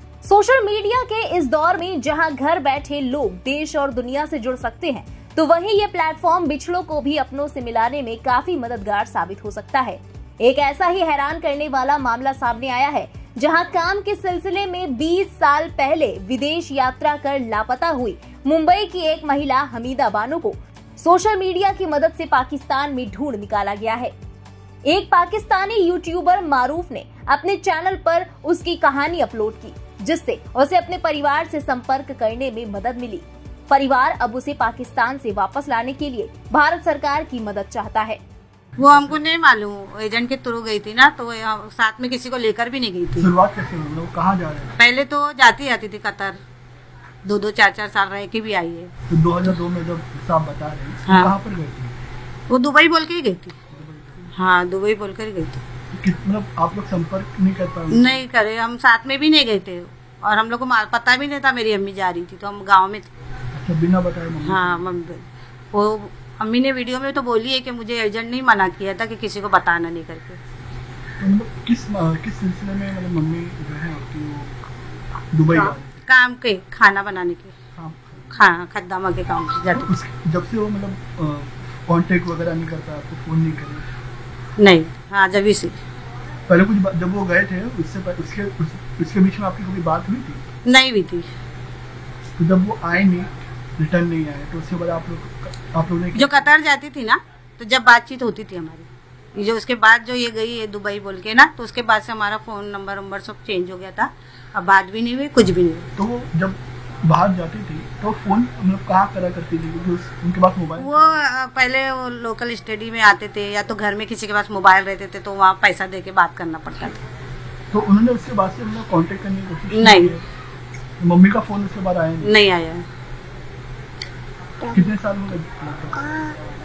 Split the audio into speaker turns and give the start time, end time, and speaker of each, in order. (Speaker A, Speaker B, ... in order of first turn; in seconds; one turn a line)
Speaker A: 0.2-24.1
Speaker A: 24.9-38.2
Speaker B: 38.8-39.0
Speaker C: 38.8-43.3
Speaker B: 43.1-44.8
Speaker C: 44.8-46.4
Speaker C: 47.2-48.9
Speaker B: 49.1-51.9
Speaker C: 52.5-53.5
Speaker B: 53.7-54.3
Speaker C: 54.3-55.6
Speaker B: 55.9-58.2
Speaker C: 57.9-63.1
Speaker B: 63.5-64.9
Speaker C: 64.4-70.4
Speaker B: 71.2-74.6
Speaker B: 75.3-76.0
Speaker C: 76.0-77.6
Speaker B: 77.7-78.5
Speaker C: 78.3-79.9
Speaker B: 79.7-83.8
Speaker C: 84.6-85.8
Speaker B: 86.5-90.4
Speaker C: 90.7-91.3
Speaker B: 92.4-96.5
Speaker C: 96.1-105.9
Speaker B: 106.0-111.2
Speaker C: 110.8-117.0
Speaker B: 117.7-120.2
Speaker C: 119.7-120.1
Speaker B: 121.0-122.3
Speaker C: 122.2-122.8
Speaker B: 124.7-126.4